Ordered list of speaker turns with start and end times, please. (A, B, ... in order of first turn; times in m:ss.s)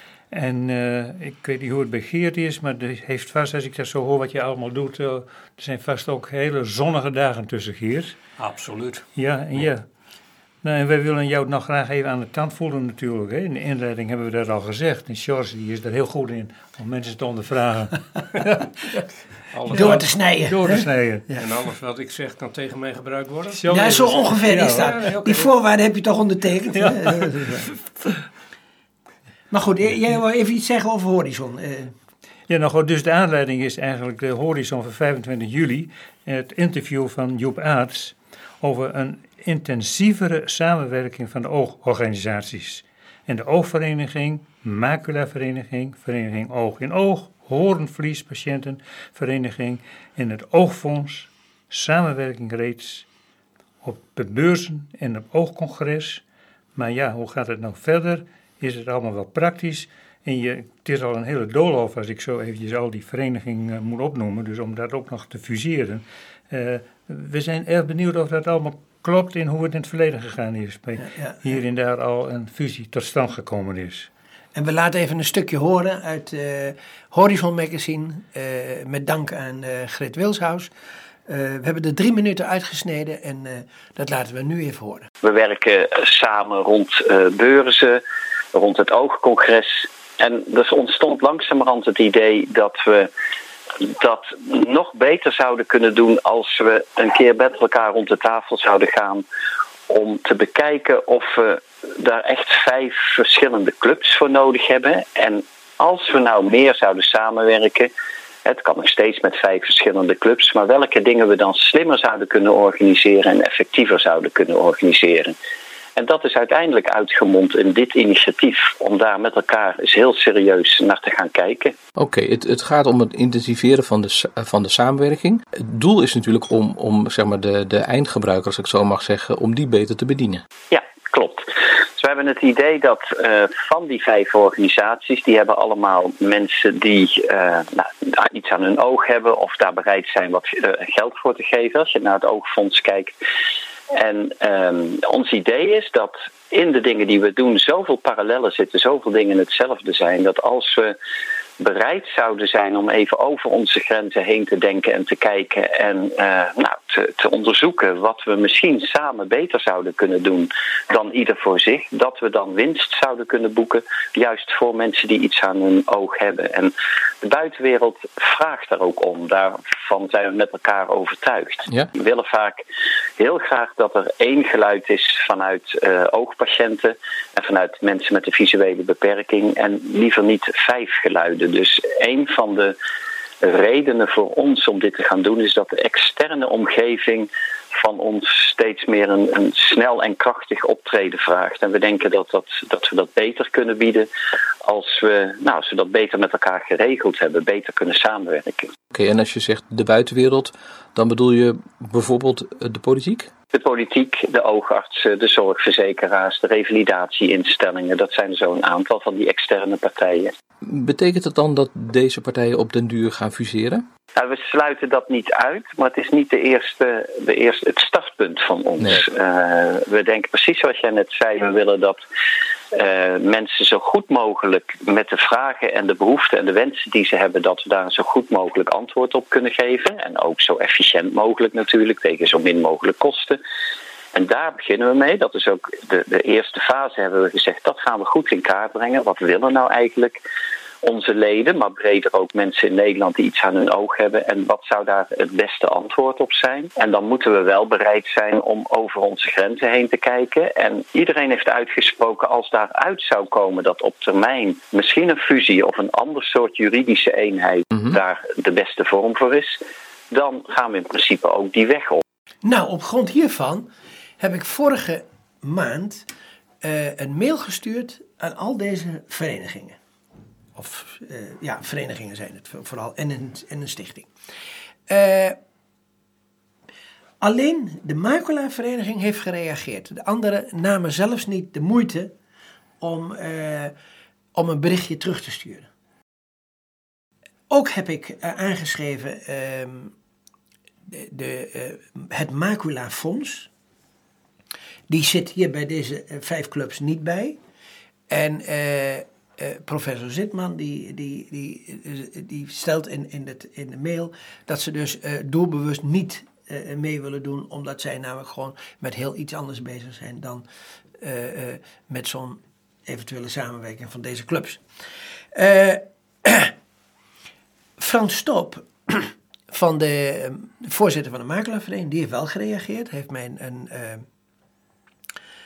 0:00.3-0:08.2 A
0:08.4-0:09.7 B
0:09.1-0:09.8 A
0:10.6-0:18.8 A
0:19.5-0:20.1 B
0:19.7-0:21.2 A
0:19.7-0:21.4 C
0:21.4-0:25.5 B
0:23.5-0:25.0 A
0:23.7-0:27.7 C
0:26.8-0:27.6 A
0:29.5-0:31.9 C
0:32.5-0:53.1 A
0:53.8-0:56.2 A
0:56.8-1:14.1 A
1:11.1-1:11.4 C
1:14.5-1:20.7 C
1:21.3-1:25.1 C
1:25.2-1:28.0 D
1:28.5-1:33.1 D
1:33.8-1:39.2 D
1:39.9-1:47.9 D
1:48.4-1:55.4 D
1:56.0-2:01.7 D
2:02.0-2:10.4 E
2:10.7-2:23.2 D
2:23.9-2:30.9 D
2:31.6-2:52.6 D
2:53.2-3:02.8 D
3:03.4-3:14.1 D
3:14.6-3:18.7 D
3:18.9-3:23.3 E
3:23.5-3:30.3 D
3:30.7-3:33.8 E
3:34.2-3:42.0 D
3:42.7-3:53.4 D
3:54.1-4:00.2 D
4:00.8-4:19.6 D
4:20.1-4:22.0 D
4:22.4-4:23.7 C
4:24.2-4:26.1 C
4:26.6-4:29.8 C
4:30.6-4:34.1 C
4:34.9-4:35.4 C
4:37.2-4:42.1 C
4:42.8-4:43.7 C
4:44.3-4:45.7 C
4:47.5-4:49.9 C
4:50.9-4:53.5 C
4:54.9-4:57.4 C
4:58.1-5:10.4 C
5:11.0-5:14.6 C
5:15.3-5:16.5 C
5:17.8-5:24.0 C